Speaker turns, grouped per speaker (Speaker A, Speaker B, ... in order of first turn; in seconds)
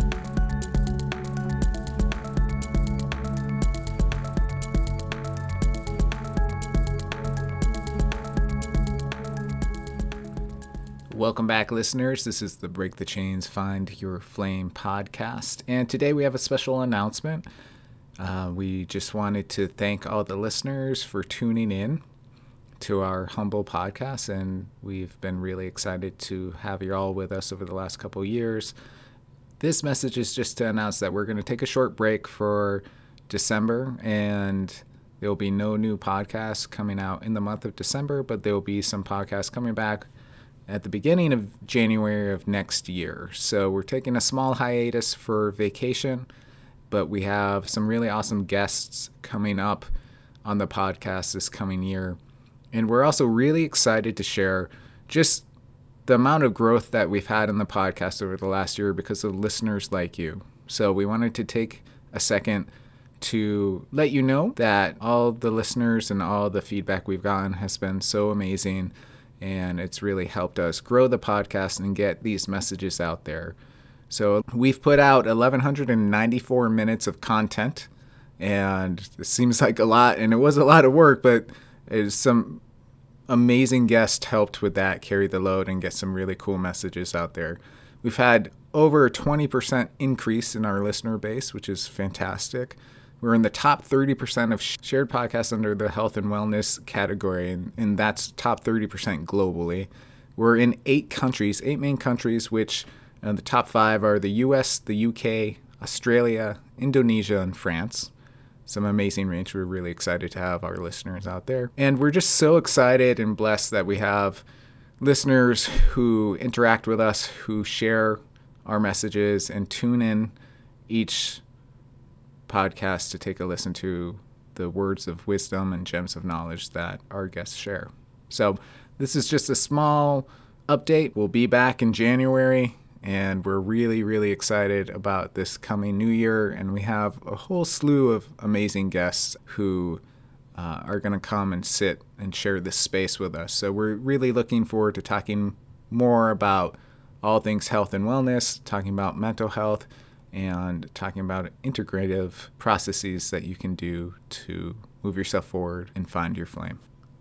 Speaker A: 11.1-17.5, 18.2-22.0, 22.8-28.7, 29.6-40.1, 40.7-46.3, 46.9-49.9, 50.5-52.2, 52.7-55.5, 56.1-62.7, 63.2-73.6, 74.1-82.6, 83.3-108.1, 108.7-114.4, 115.0-120.3, 120.9-121.4, 122.5-140.0, 140.6-156.8